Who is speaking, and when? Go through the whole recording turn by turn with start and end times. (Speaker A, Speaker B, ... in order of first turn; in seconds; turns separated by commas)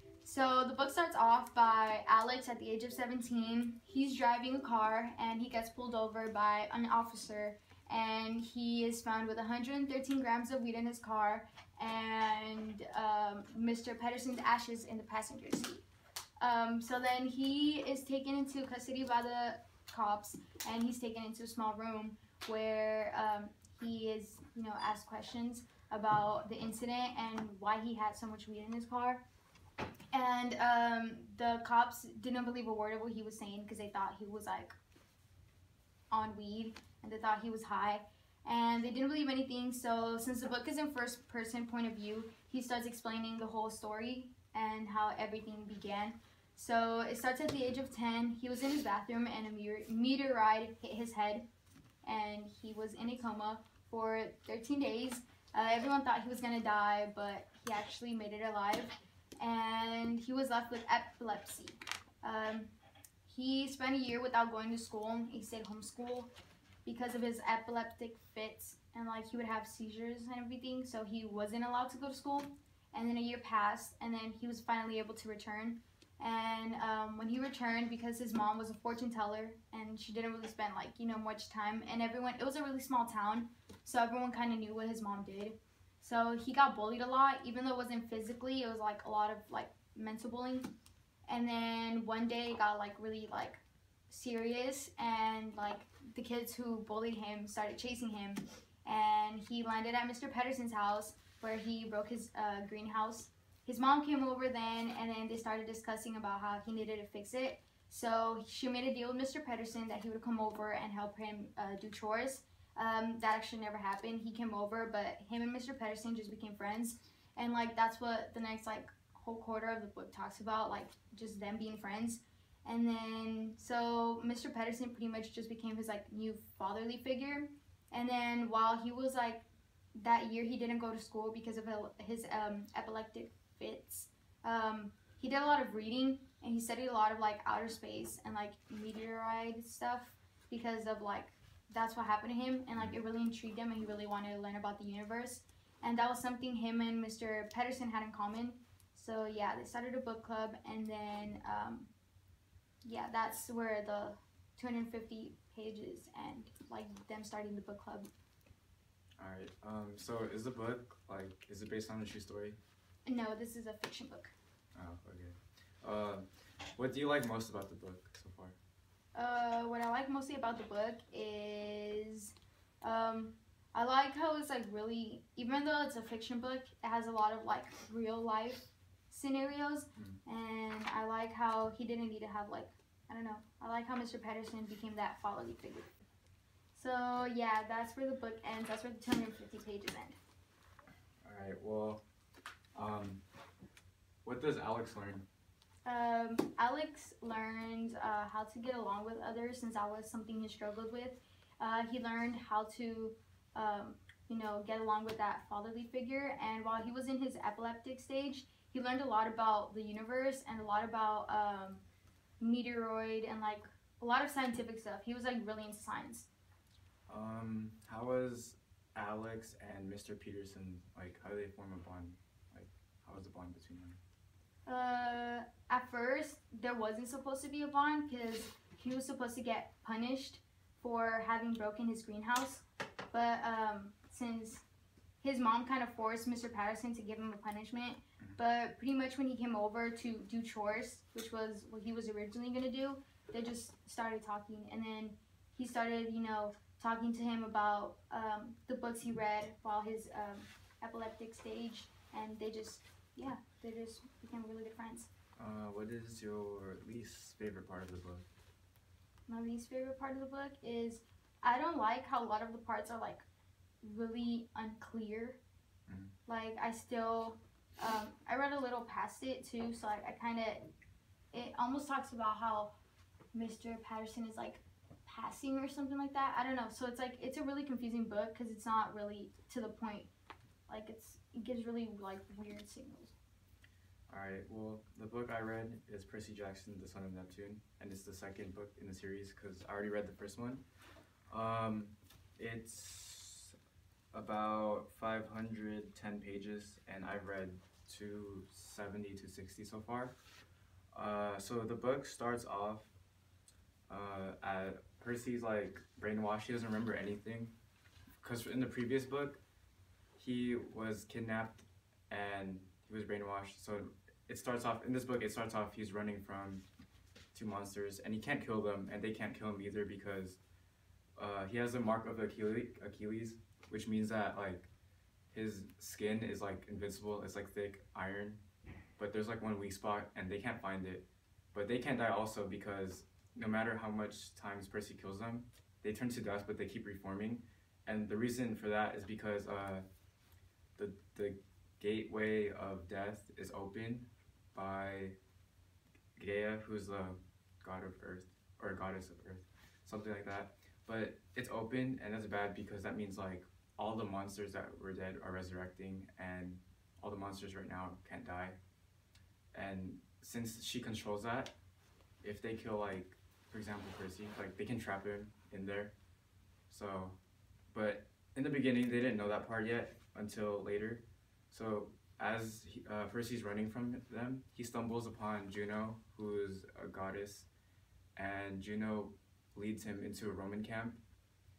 Speaker A: 0.2-15.8, Speaker A: 16.4-29.2, Speaker A: 30.1-34.8, Speaker A: 36.1-51.5, Speaker A: 52.0-62.7, Speaker A: 63.3-66.3, Speaker A: 66.8-90.7, Speaker A: 91.3-151.9, Speaker A: 152.8-158.1, Speaker B: 159.2-162.6, Speaker A: 163.1-164.3, Speaker B: 164.8-168.6, Speaker A: 169.2-185.9, Speaker A: 186.7-190.2, Speaker B: 191.2-192.0, Speaker B: 192.8-193.2, Speaker B: 194.2-195.3, Speaker A: 195.9-211.8, Speaker A: 212.4-216.3, Speaker B: 217.1-224.0, Speaker A: 224.7-234.7, Speaker A: 235.2-255.1, Speaker B: 255.4-258.3, Speaker A: 259.3-263.3, Speaker A: 263.8-265.4, Speaker B: 265.9-266.1, Speaker A: 266.3-270.7, Speaker A: 271.3-272.7, Speaker A: 273.3-280.1, Speaker A: 280.7-283.2, Speaker B: 284.1-290.6, Speaker B: 291.3-293.6, Speaker B: 294.1-300.1, Speaker B: 300.9-302.9, Speaker B: 303.9-307.6, Speaker B: 308.2-309.4, Speaker B: 310.2-316.6, Speaker B: 317.3-320.4, Speaker B: 321.2-324.7, Speaker B: 325.3-328.4, Speaker B: 329.0-339.9, Speaker B: 340.8-345.2, Speaker B: 346.2-358.6, Speaker B: 359.5-361.6, Speaker B: 362.2-365.9, Speaker B: 366.7-367.2, Speaker B: 367.7-377.5, Speaker B: 378.2-381.0